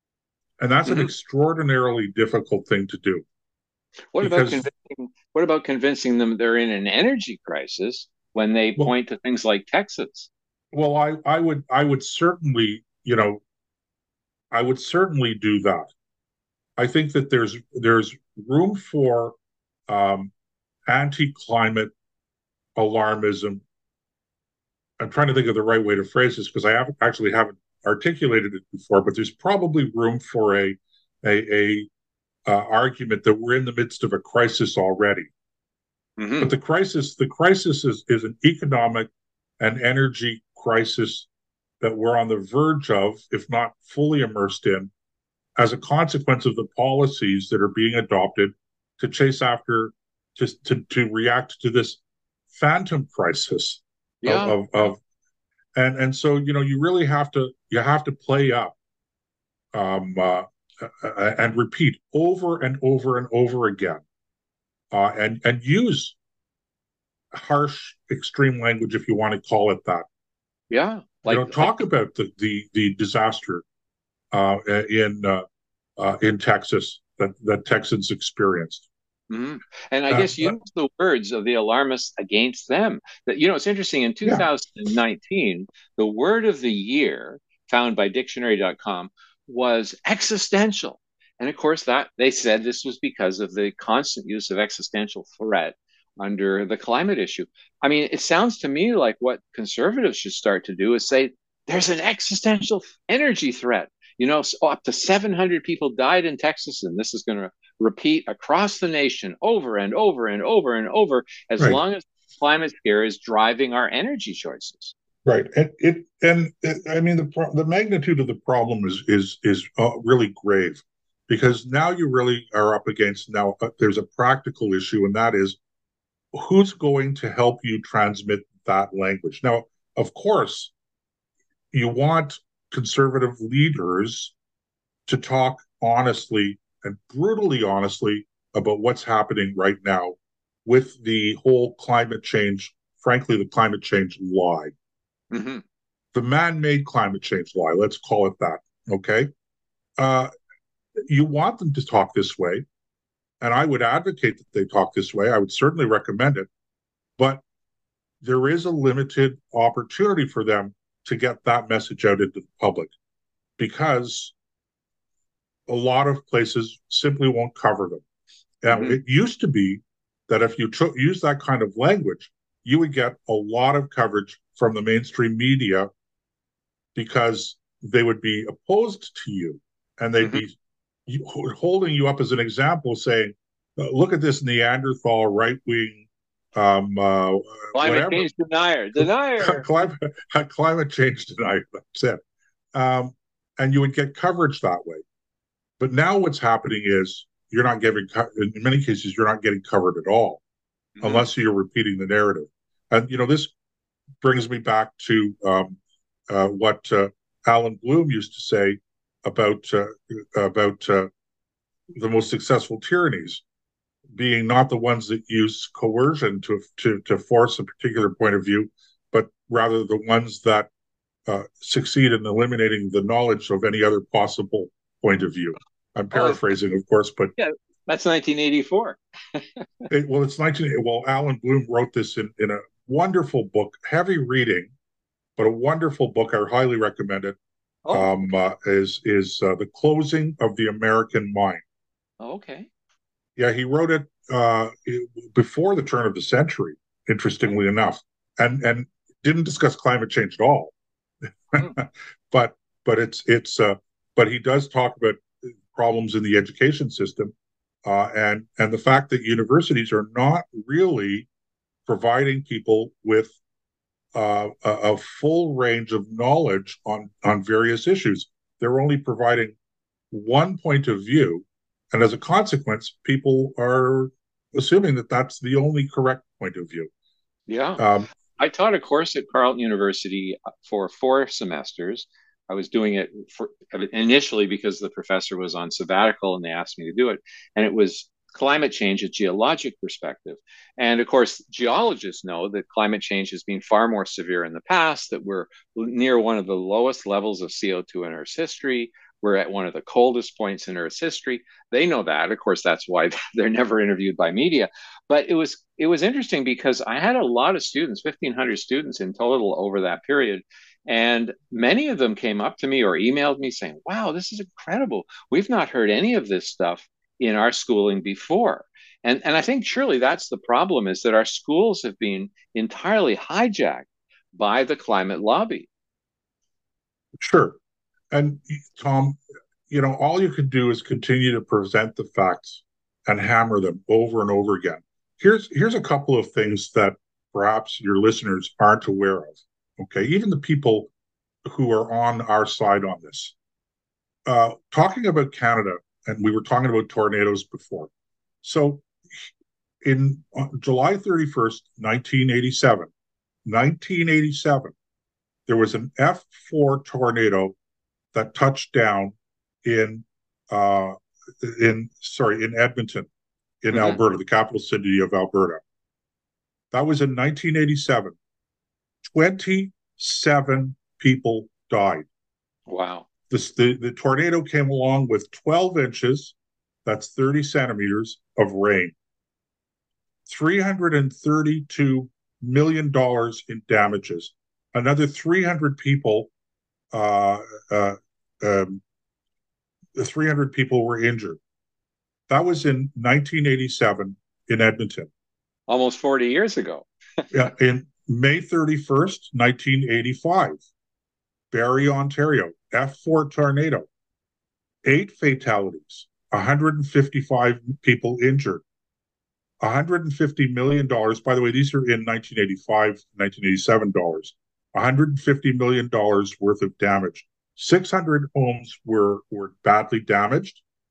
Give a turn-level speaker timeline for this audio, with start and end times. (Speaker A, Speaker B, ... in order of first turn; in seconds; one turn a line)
Speaker A: 0.6-3.2
Speaker B: 0.9-1.1
Speaker B: 4.1-10.3
Speaker A: 4.2-4.7
Speaker A: 10.7-13.4
Speaker A: 14.5-15.9
Speaker A: 16.8-19.4
Speaker A: 19.9-20.3
Speaker A: 20.9-21.9
Speaker A: 22.8-23.6
Speaker A: 25.0-31.9
Speaker A: 32.5-35.3
Speaker B: 36.2-36.5
Speaker A: 36.4-41.3
Speaker A: 41.8-44.9
Speaker A: 45.6-52.0
Speaker A: 52.5-55.0
Speaker B: 54.2-54.6
Speaker A: 55.8-58.8
Speaker A: 59.7-64.0
Speaker A: 64.9-66.2
Speaker A: 67.3-70.1
Speaker B: 70.7-71.8
Speaker A: 71.3-73.6
Speaker A: 74.3-75.5
Speaker A: 76.0-78.9
Speaker B: 79.3-114.9
Speaker A: 80.1-80.5
Speaker A: 84.2-84.5
Speaker A: 115.2-125.6
Speaker A: 126.3-130.7
Speaker A: 131.7-134.3
Speaker A: 135.1-144.7
Speaker B: 145.3-145.6
Speaker A: 146.1-149.3
Speaker A: 150.0-150.3
Speaker A: 151.0-152.7
Speaker A: 153.4-156.5
Speaker A: 157.2-157.4
Speaker A: 158.2-162.9
Speaker A: 163.6-164.3
Speaker A: 165.7-168.0
Speaker A: 168.6-175.9
Speaker B: 168.7-169.0
Speaker A: 176.9-180.6
Speaker A: 181.1-188.3
Speaker B: 187.7-189.7
Speaker A: 188.9-192.2
Speaker A: 192.7-195.0
Speaker A: 195.8-200.4
Speaker B: 201.0-201.3
Speaker A: 201.0-203.5
Speaker A: 204.2-211.1
Speaker A: 211.9-213.4
Speaker A: 214.1-220.7
Speaker A: 221.3-227.3
Speaker B: 226.1-226.4
Speaker B: 227.4-229.6
Speaker A: 229.9-234.7
Speaker A: 235.4-237.4
Speaker B: 237.8-238.3
Speaker A: 237.9-241.6
Speaker B: 242.2-242.7
Speaker A: 243.4-250.7
Speaker A: 251.5-257.3
Speaker A: 257.8-261.3
Speaker A: 261.9-263.4
Speaker A: 264.1-269.6
Speaker A: 270.1-276.9
Speaker B: 277.5-277.9
Speaker A: 277.8-278.1
Speaker B: 278.4-325.7
Speaker A: 327.2-327.6
Speaker A: 328.1-340.9
Speaker A: 341.5-343.3
Speaker A: 344.2-347.9
Speaker A: 348.4-349.3
Speaker A: 349.8-352.9
Speaker A: 353.4-354.7
Speaker A: 355.5-357.6
Speaker A: 358.1-363.1
Speaker A: 363.6-365.6
Speaker B: 363.7-364.0
Speaker A: 366.7-368.2
Speaker A: 369.1-372.1
Speaker B: 372.7-373.1
Speaker A: 373.3-378.9
Speaker A: 380.3-386.3
Speaker A: 386.9-388.8
Speaker A: 389.9-391.4
Speaker A: 392.3-395.1
Speaker B: 395.7-396.9
Speaker A: 397.3-400.6
Speaker A: 401.5-403.9
Speaker A: 404.8-408.6
Speaker A: 409.6-420.6